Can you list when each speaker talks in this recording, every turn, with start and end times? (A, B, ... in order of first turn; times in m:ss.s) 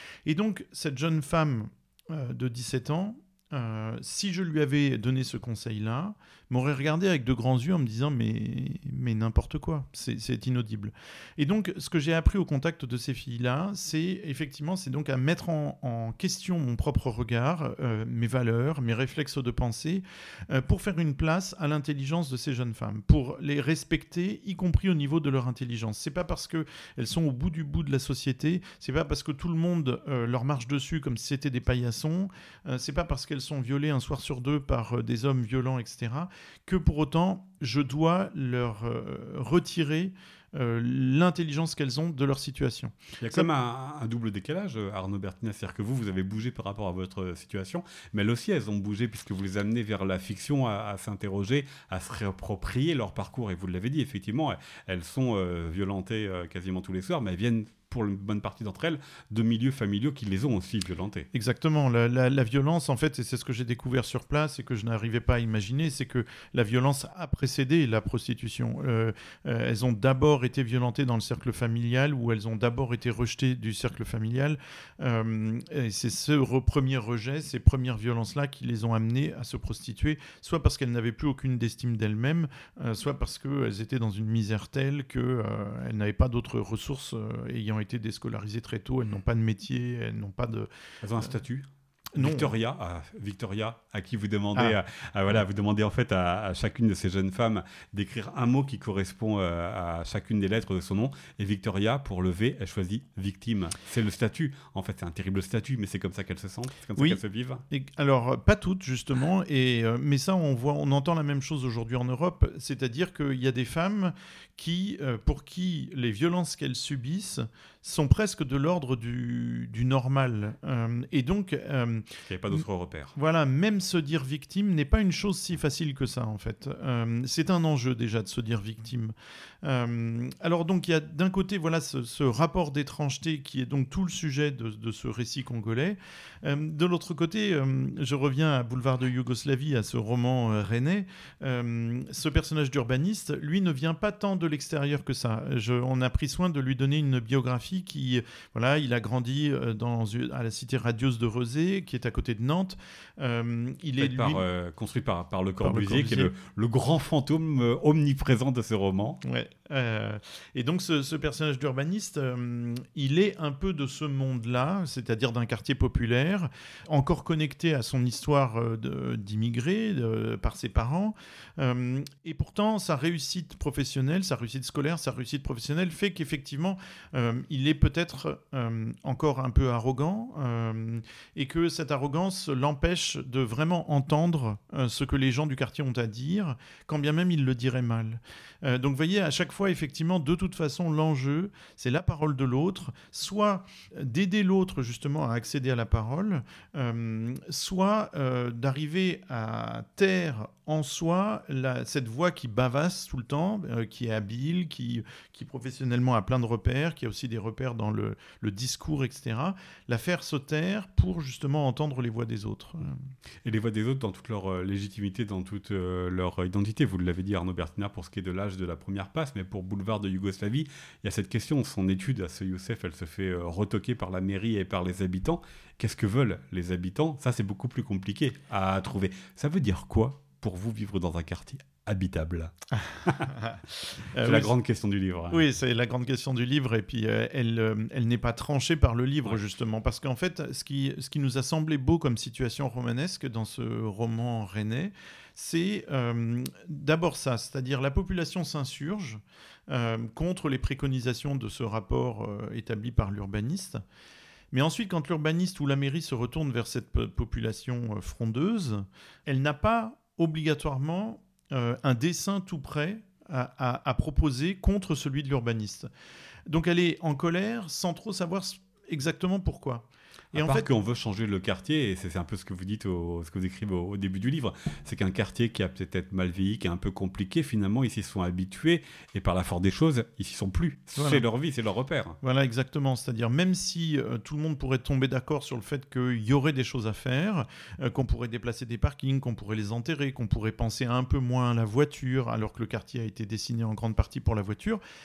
0:00.2-0:43.5 A
0:43.2-1:01.3 B
1:01.3-1:30.7 A
1:31.0-1:47.6 B
1:32.1-1:32.5 A
1:47.0-2:02.6 A
2:02.2-2:03.1 B
2:03.1-2:34.4 A
2:34.0-2:39.2 B
2:35.6-2:36.3 A
2:39.2-3:33.0 A
3:33.4-3:53.3 B
3:52.9-3:54.5 A
3:54.1-3:55.4 B
3:55.3-4:13.8 A
4:14.5-4:25.9 A
4:26.5-4:30.7 A
4:30.3-4:42.2 B
4:41.0-4:41.2 A
4:42.2-4:54.8 A